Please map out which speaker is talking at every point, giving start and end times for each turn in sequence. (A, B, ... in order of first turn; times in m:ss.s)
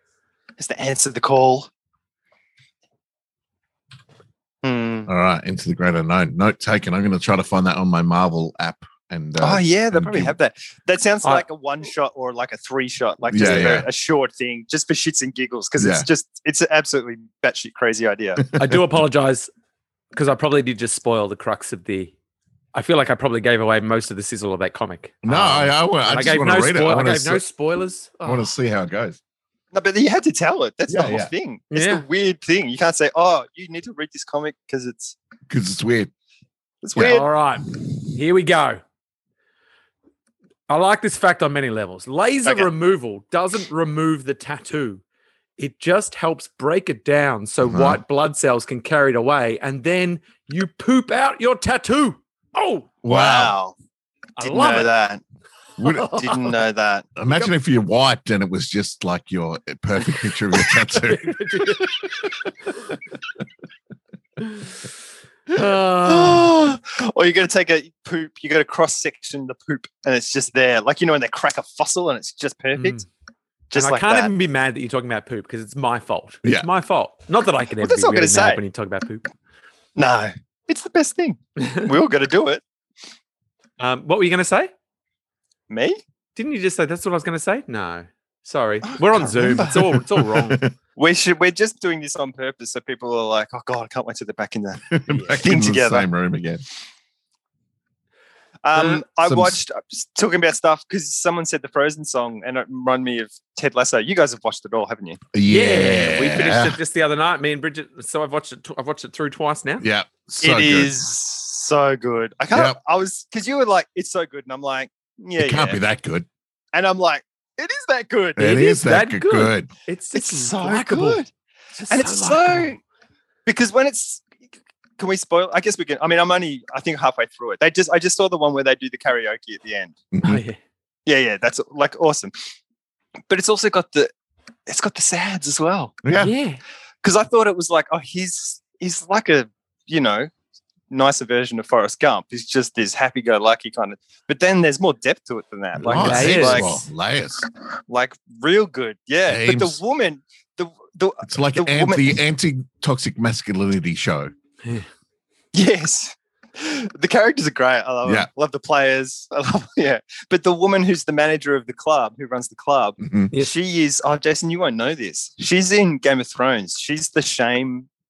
0:00.6-0:01.7 A
0:04.6-0:05.1 A
0:05.1-0:10.3 B
0:09.4-0:18.4 A
0:13.3-0:13.9 B
0:15.8-0:16.1 B
0:18.4-0:18.8 B
0:18.6-0:19.5 C
0:20.1-0:22.1 C
0:22.7-0:28.5 C
0:25.2-0:27.4 B
0:28.2-0:29.2 B
0:29.7-0:35.2 A
0:30.9-0:31.3 B
0:31.7-0:32.0 C
0:35.5-0:36.1 B
0:36.8-0:37.3 A
0:37.0-0:38.8 C
0:40.7-0:45.0 C
0:42.4-0:42.7 A
0:45.6-0:52.9 C
0:47.7-0:48.0 B
0:53.0-0:53.6 B
0:53.1-0:53.8 A
0:54.4-0:54.9 C
0:54.4-0:55.2 A
0:55.8-0:56.1 B
0:55.8-0:56.6 C
0:56.1-0:57.1 A
0:57.2-1:02.5 B
1:00.5-1:02.0 C
1:04.4-1:04.7 C
1:05.5-1:06.5 C
1:06.0-1:13.0 A
1:12.8-1:13.0 C
1:13.7-1:14.3 A
1:13.8-1:19.2 C
1:17.8-1:18.6 A
1:20.0-1:22.6 A
1:23.8-1:24.7 C
1:25.7-1:26.0 A
1:26.4-1:30.6 C
1:28.8-1:29.9 A
1:29.9-1:30.7 B
1:31.0-1:36.1 A
1:34.9-1:36.6 B
1:38.6-1:45.2 A
1:39.2-1:39.6 B
1:45.3-1:46.8 B
1:45.5-1:49.9 C
1:49.8-1:50.9 B
1:50.4-1:55.8 A
1:52.5-1:52.8 B
1:55.4-1:56.3 B
1:56.7-1:58.6 A
1:58.4-1:59.7 B
1:58.4-2:01.2 C
2:00.1-2:01.3 A
2:01.8-2:02.7 C
2:01.9-2:02.8 A
2:03.5-2:04.3 A
2:05.0-2:09.9 A
2:10.1-2:10.4 B
2:10.2-2:10.6 C
2:11.1-2:12.3 A
2:13.3-2:14.1 A
2:14.7-2:16.0 A
2:16.0-2:16.3 B
2:16.2-2:16.6 C
2:17.0-2:20.3 A
2:20.9-2:26.8 A
2:25.8-2:26.9 C
2:25.8-2:27.5 B
2:27.9-2:32.2 A
2:29.3-2:29.8 B
2:31.2-2:34.3 B
2:35.5-2:47.9 A
2:43.0-2:43.3 B